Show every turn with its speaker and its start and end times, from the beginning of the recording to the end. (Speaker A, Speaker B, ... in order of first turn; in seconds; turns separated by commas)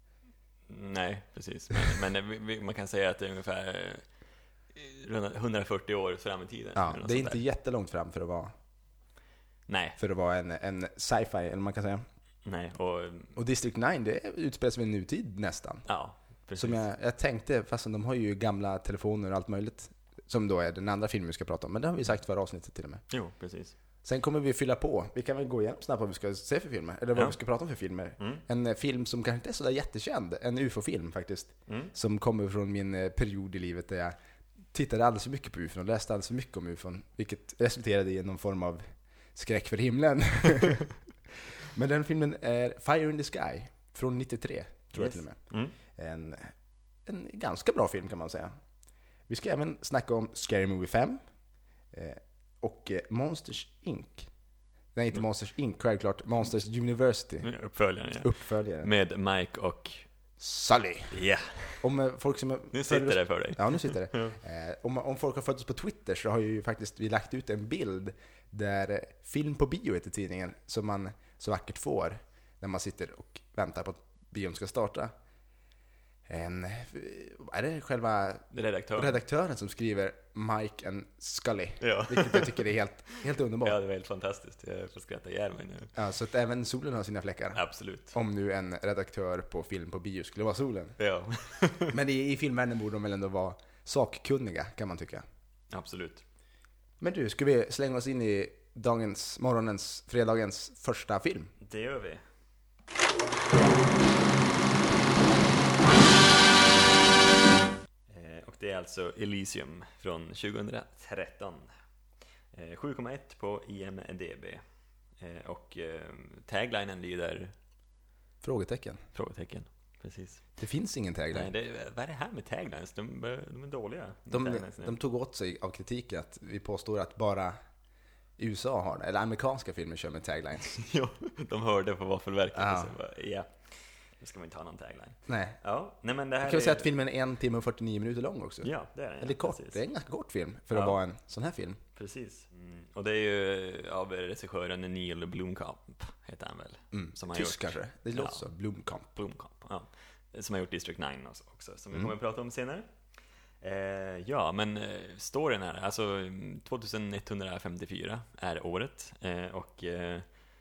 Speaker A: 0.7-4.0, Speaker A: 4.7-7.4, Speaker B: 6.8-8.5, Speaker A: 9.7-10.0, Speaker B: 10.0-12.0, Speaker A: 12.4-13.4, Speaker B: 13.3-15.8, Speaker A: 15.8-16.9, Speaker B: 16.6-23.0, Speaker A: 23.1-23.7, Speaker B: 24.0-34.1, Speaker A: 31.7-31.9, Speaker B: 34.7-38.8, Speaker B: 39.3-46.5, Speaker A: 44.9-45.7, Speaker B: 47.0-48.5, Speaker B: 49.3-51.2, Speaker B: 51.9-54.3, Speaker B: 54.9-57.5, Speaker A: 57.4-60.0, Speaker B: 58.2-58.9, Speaker B: 60.4-61.1, Speaker A: 61.1-61.9, Speaker B: 61.8-75.1, Speaker A: 62.7-64.4, Speaker B: 76.2-83.8, Speaker A: 78.5-79.2, Speaker A: 81.8-85.9, Speaker B: 85.9-87.6, Speaker A: 87.5-88.2, Speaker B: 88.1-91.0, Speaker A: 91.0-92.0, Speaker B: 91.9-95.2, Speaker A: 95.7-96.2, Speaker B: 97.0-101.5, Speaker A: 101.6-102.2, Speaker A: 108.1-111.7, Speaker A: 112.5-114.6, Speaker A: 115.2-117.5, Speaker B: 118.4-119.0, Speaker A: 119.1-120.4, Speaker B: 120.6-121.5, Speaker A: 121.3-125.0, Speaker B: 124.3-127.5, Speaker B: 128.4-130.8, Speaker A: 130.7-133.6, Speaker B: 132.5-132.9, Speaker A: 134.2-136.9, Speaker B: 135.3-135.6, Speaker B: 136.4-138.7, Speaker A: 138.6-139.8, Speaker B: 139.2-141.8, Speaker A: 140.7-141.0, Speaker A: 141.9-148.5, Speaker B: 146.9-149.1, Speaker A: 149.2-152.9, Speaker A: 153.6-160.2